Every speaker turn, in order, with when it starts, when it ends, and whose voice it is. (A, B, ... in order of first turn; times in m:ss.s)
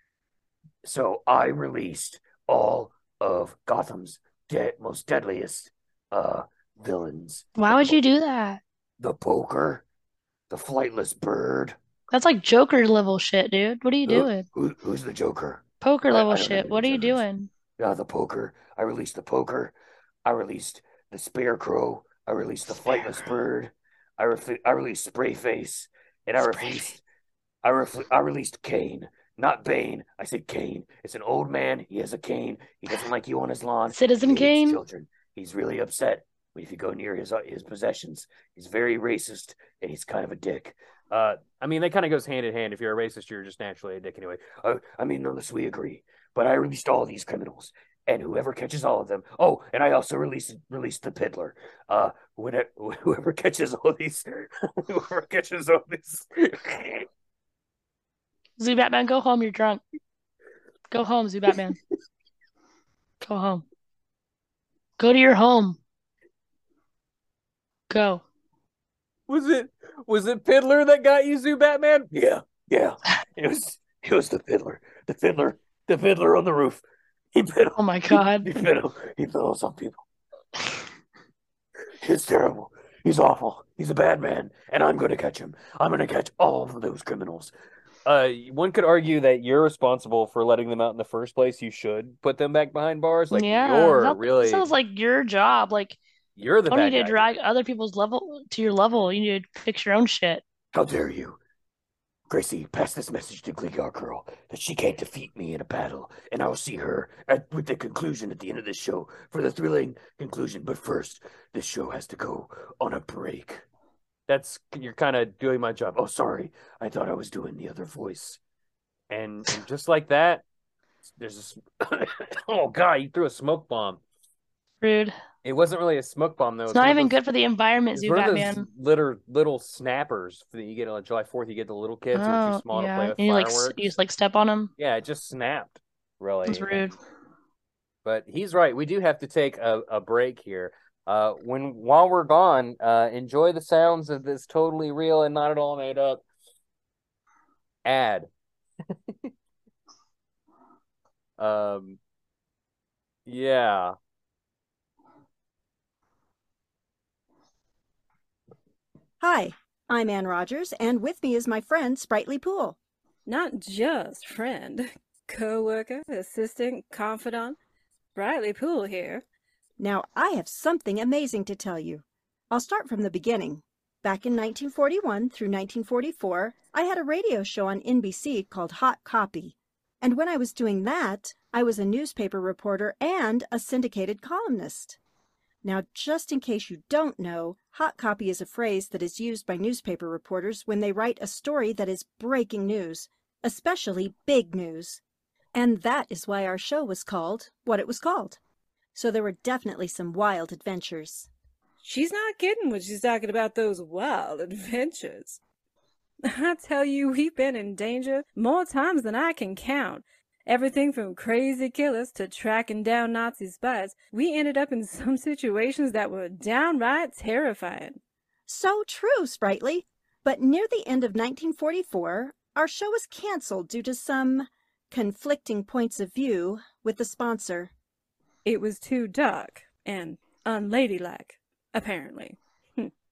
0:00.8-0:08.0 A
0:07.6-0:08.6 B
0:09.0-0:09.8 A
0:10.5-0:11.8 A
0:12.1-0:14.5 B
0:14.1-0:17.2 A
0:15.8-0:17.5 B
0:17.8-0:27.0 A
0:22.8-0:23.3 B
0:26.4-0:27.0 B
0:27.6-0:40.8 A
0:33.9-0:34.8 B
0:41.1-0:44.6 C
0:44.5-0:57.0 A
0:58.6-0:59.8 B
1:00.9-1:01.8 B
1:03.2-1:03.6 B
1:05.0-1:05.8 B
1:07.9-1:08.2 B
1:09.3-1:12.1 C
1:12.1-1:20.0 A
1:17.8-1:18.5 B
1:22.0-1:27.5 A
1:28.0-1:34.7 C
1:33.3-1:36.0 B
1:36.4-1:37.3 C
1:36.7-1:40.4 B
1:40.7-1:41.4 A
1:42.3-1:53.6 A
1:54.3-1:56.0 C
1:56.0-1:58.4 A
1:59.1-2:00.4 C
2:01.2-2:04.0 C
2:04.8-2:05.1 B
2:05.4-2:07.2 C
2:06.7-2:08.6 B
2:07.9-2:13.9 C
2:12.1-2:14.7 B
2:14.8-2:16.8 C
2:16.4-2:16.9 B
2:18.0-2:26.2 C
2:27.8-2:28.3 C
2:31.4-2:32.0 C
2:33.2-2:33.9 C
2:39.2-2:42.8 D
2:43.2-2:47.6 E
2:48.1-2:49.2 E
2:49.8-3:05.0 D
3:05.6-3:15.0 D
3:15.6-3:18.4 D
3:18.9-3:21.3 D
3:21.8-3:25.4 E
3:26.2-3:38.0 E
3:38.5-3:47.7 D
3:48.4-3:52.9 E